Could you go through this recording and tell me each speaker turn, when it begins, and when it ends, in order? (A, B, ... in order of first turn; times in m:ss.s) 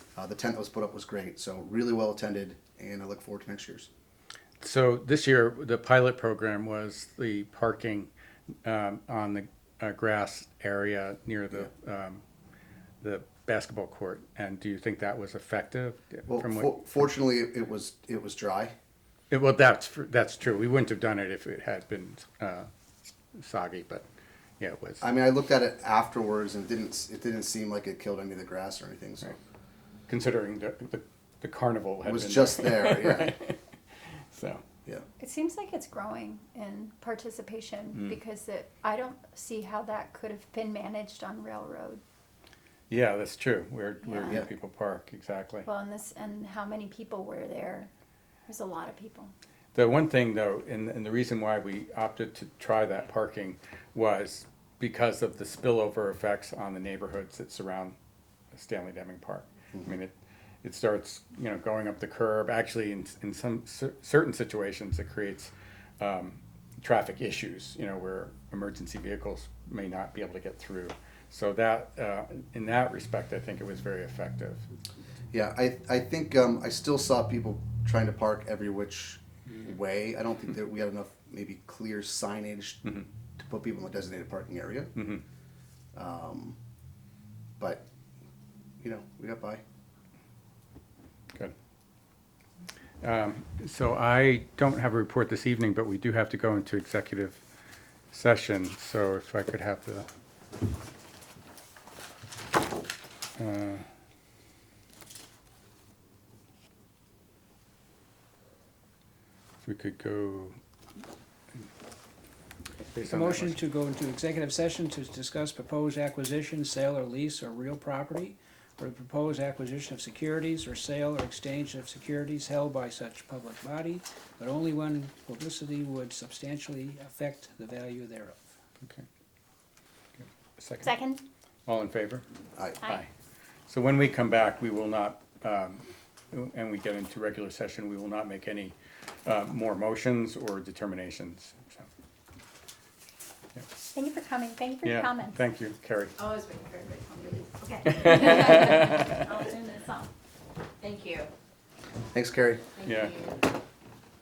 0:00.2-0:03.9 A
0:04.6-0:08.1 B
0:08.6-0:12.2 B
0:13.0-0:16.8 B
0:16.3-0:18.7 A
0:19.3-0:22.7 B
0:23.4-0:24.0 B
0:24.6-0:25.0 B
0:25.0-0:29.4 A
0:30.1-0:33.6 B
0:32.0-0:33.4 A
0:34.3-0:34.6 B
0:35.2-0:42.0 C
0:42.9-0:45.7 B
0:44.0-0:44.4 C
0:45.6-0:47.9 C
0:48.5-0:49.3 C
0:49.8-0:58.0 B
0:58.5-1:14.7 B
1:15.3-1:25.0 A
1:25.0-1:25.2 B
1:26.0-1:26.6 A
1:27.6-1:27.8 A
1:28.8-1:29.6 A
1:33.0-1:37.4 B
1:38.1-1:40.1 B
1:43.4-1:43.9 B
1:49.6-1:50.6 B
1:52.8-1:53.6 B
1:53.1-2:08.4 D
2:10.2-2:10.9 B
2:10.8-2:11.2 C
2:11.7-2:12.2 B
2:12.8-2:13.1 B
2:13.7-2:21.9 B
2:23.9-2:25.4 C
2:24.8-2:26.2 B
2:26.2-2:28.2 E
2:27.6-2:30.1 C
2:27.9-2:29.2 B
2:30.8-2:31.3 E
2:32.1-2:32.7 A
2:32.8-2:33.4 E
2:32.8-2:33.2 B